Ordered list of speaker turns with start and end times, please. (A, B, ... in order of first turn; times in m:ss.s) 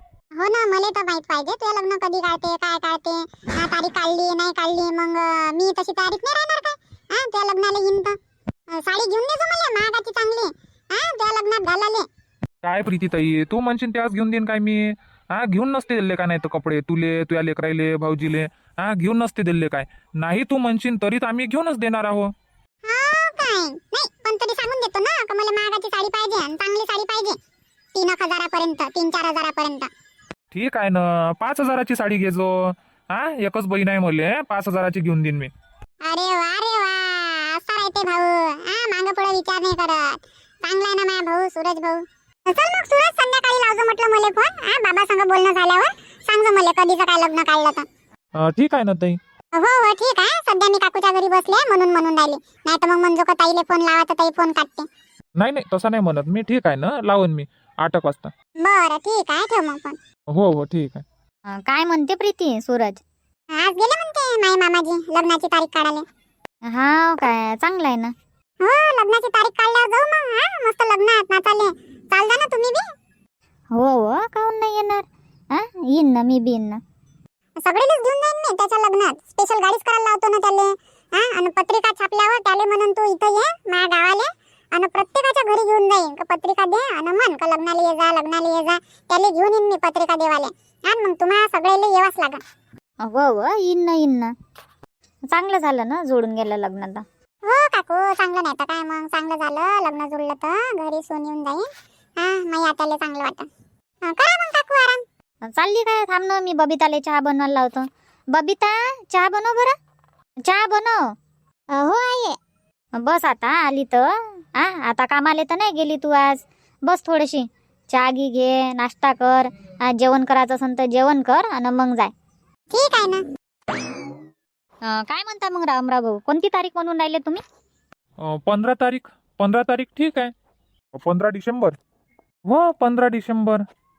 0:00.4-0:08.2 A
0:08.7-0:12.1 A
0:12.6-0:22.3 B
0:22.8-0:27.4 A
0:27.9-0:29.9 A
0:30.5-0:35.5 B
0:36.0-0:47.8 A
0:48.4-0:49.2 B
0:49.5-0:54.9 A
0:55.4-0:58.3 B
0:58.6-1:00.0 A
1:00.3-1:01.0 B
1:01.5-1:03.0 C
1:03.5-1:06.0 A
1:06.6-1:08.1 C
1:08.6-1:12.8 A
1:13.7-1:16.8 C
1:17.6-1:32.4 A
1:33.0-1:34.3 C
1:35.3-1:37.0 C
1:37.4-1:41.7 A
1:42.2-1:43.5 A
1:44.0-1:45.0 A
1:45.4-1:49.7 C
1:50.4-1:51.1 C
1:51.7-1:52.4 C
1:53.0-2:02.1 C
2:02.7-2:03.2 A
2:04.8-2:07.4 C
2:08.2-2:10.3 B
2:10.9-2:11.7 B
2:12.4-2:13.6 B